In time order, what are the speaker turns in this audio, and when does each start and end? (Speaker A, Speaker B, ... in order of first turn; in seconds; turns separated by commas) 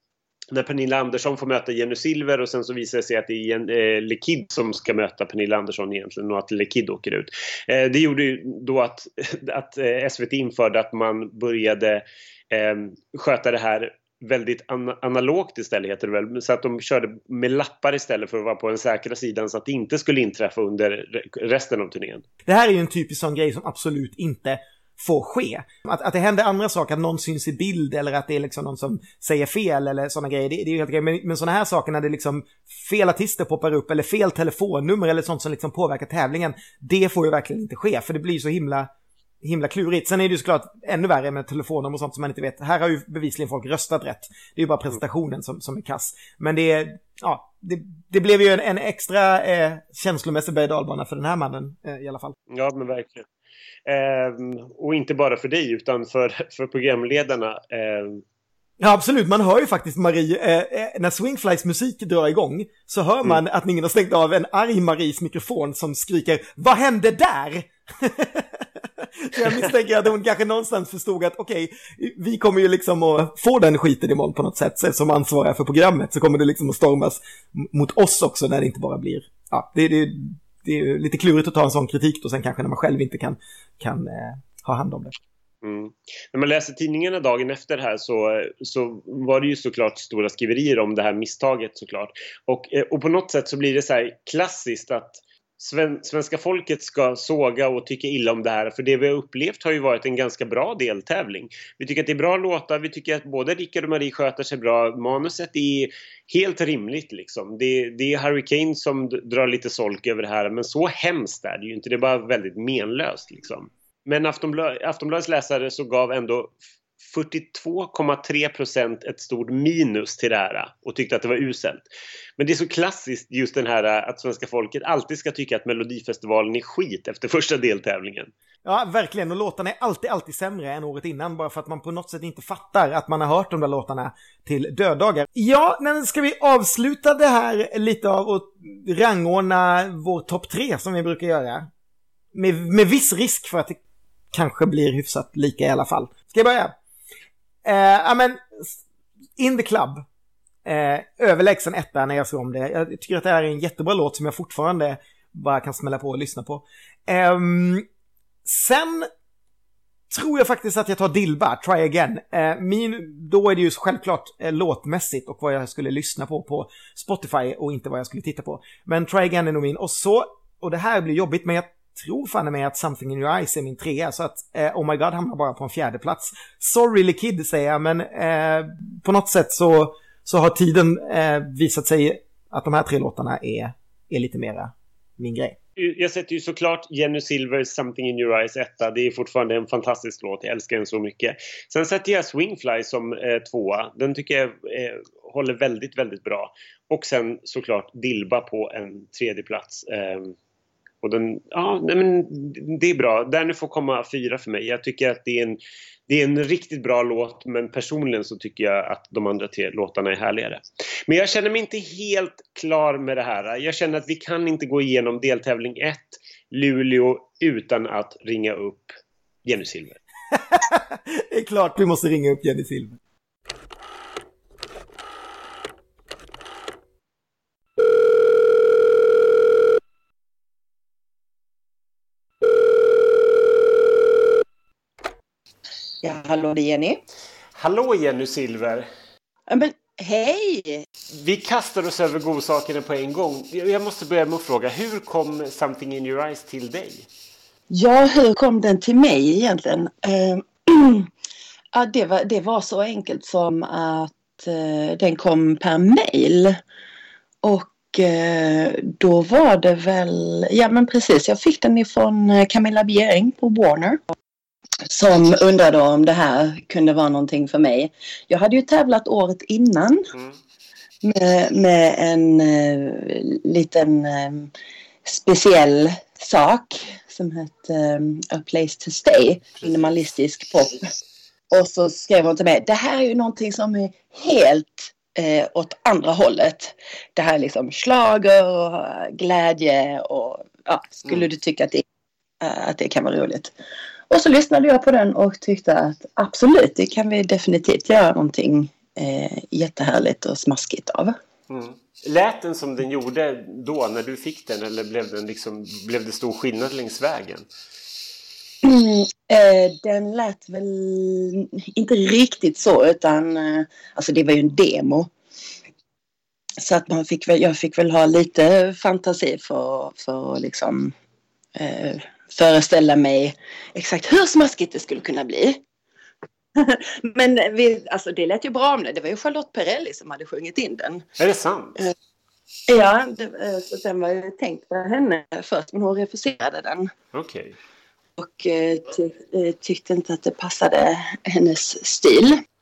Speaker A: 0.5-22.2, Speaker B: 22.5-38.9, Speaker B: 39.4-52.4, Speaker A: 52.5-53.3, Speaker A: 53.9-58.2, Speaker B: 58.8-85.2, Speaker A: 85.6-121.8, Speaker A: 122.4-128.3, Speaker B: 128.7-141.7, Speaker B: 142.3-143.8, Speaker B: 144.3-146.7, Speaker B: 147.6-148.8, Speaker B: 149.4-150.1, Speaker B: 150.7-157.9, Speaker B: 158.4-159.1, Speaker B: 160.1-185.6, Speaker A: 185.8-200.3, Speaker A: 201.0-220.0, Speaker B: 220.3-223.0, Speaker C: 236.0-237.0, Speaker A: 237.6-238.9, Speaker C: 239.5-240.8, Speaker A: 241.1-247.1, Speaker C: 247.7-251.1, Speaker C: 251.7-256.6, Speaker C: 257.4-264.0, Speaker C: 264.9-270.1, Speaker A: 270.1-270.4, Speaker C: 271.0-274.5, Speaker C: 275.1-280.8, Speaker A: 279.6-279.9, Speaker C: 281.5-291.8, Speaker C: 292.4-293.5, Speaker C: 294.1-301.2, Speaker A: 301.5-307.5, Speaker C: 308.6-315.1, Speaker C: 316.6-320.9, Speaker C: 321.6-325.6, Speaker C: 326.6-331.0, Speaker A: 331.2-331.8, Speaker C: 332.7-336.9, Speaker A: 337.1-337.6, Speaker C: 338.2-342.4